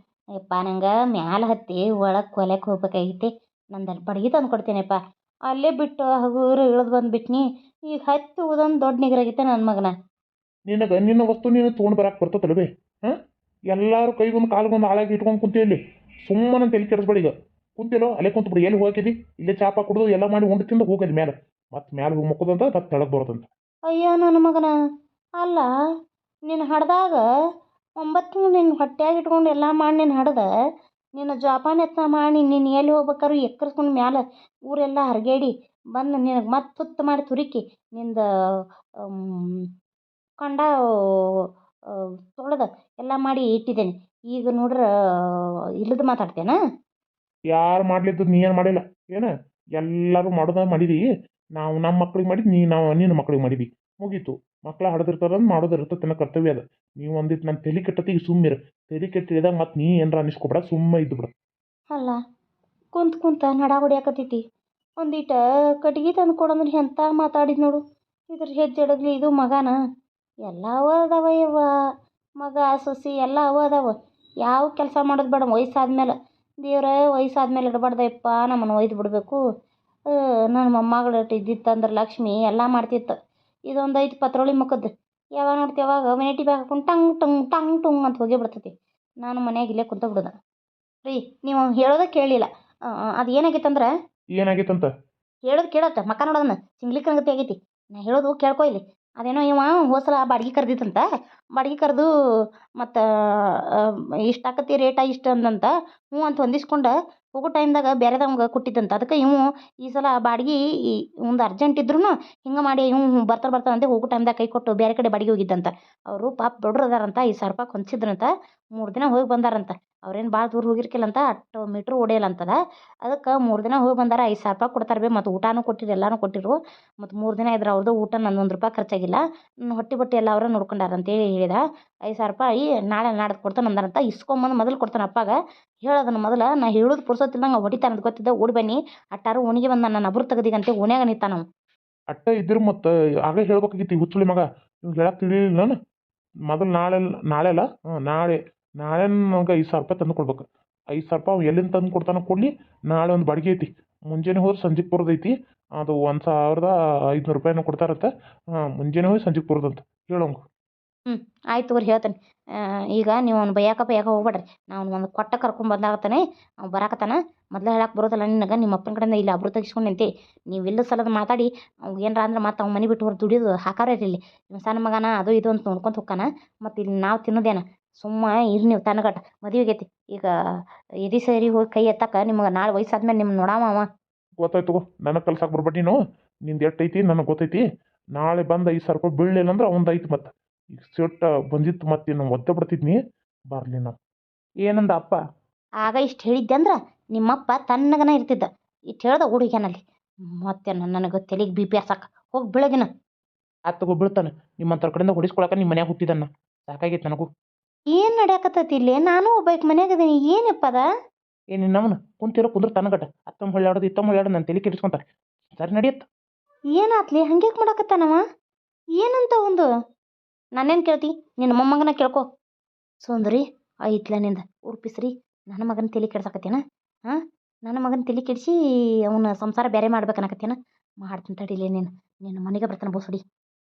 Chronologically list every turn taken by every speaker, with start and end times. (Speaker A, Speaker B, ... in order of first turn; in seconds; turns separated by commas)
Speaker A: 0.4-9.9, Speaker B: 10.7-13.2, Speaker B: 13.7-23.4, Speaker A: 23.9-24.7, Speaker A: 25.4-25.7, Speaker A: 26.5-27.2, Speaker A: 28.0-30.4, Speaker A: 31.1-39.7, Speaker A: 40.4-46.5, Speaker B: 47.5-51.0, Speaker B: 51.6-61.3, Speaker A: 61.9-62.2, Speaker A: 62.9-64.4, Speaker A: 65.0-69.7, Speaker A: 70.4-71.7, Speaker A: 72.4-73.9, Speaker A: 74.4-79.4, Speaker A: 80.1-83.1, Speaker A: 83.7-90.3, Speaker A: 91.0-93.9, Speaker B: 94.4-94.9, Speaker A: 95.4-101.0, Speaker A: 101.5-102.1, Speaker A: 102.8-141.4, Speaker B: 142.1-145.8, Speaker B: 146.5-158.1, Speaker B: 158.8-160.4, Speaker A: 161.1-183.9, Speaker B: 184.4-187.6, Speaker B: 188.2-193.0, Speaker B: 193.5-193.9, Speaker B: 194.6-195.2, Speaker A: 195.8-199.8, Speaker A: 200.4-202.9, Speaker B: 203.7-207.3, Speaker A: 207.9-210.8, Speaker B: 211.5-215.0, Speaker B: 215.6-216.1, Speaker A: 216.7-218.2, Speaker A: 219.0-219.7, Speaker A: 220.6-222.2, Speaker A: 223.0-228.5, Speaker A: 229.1-233.2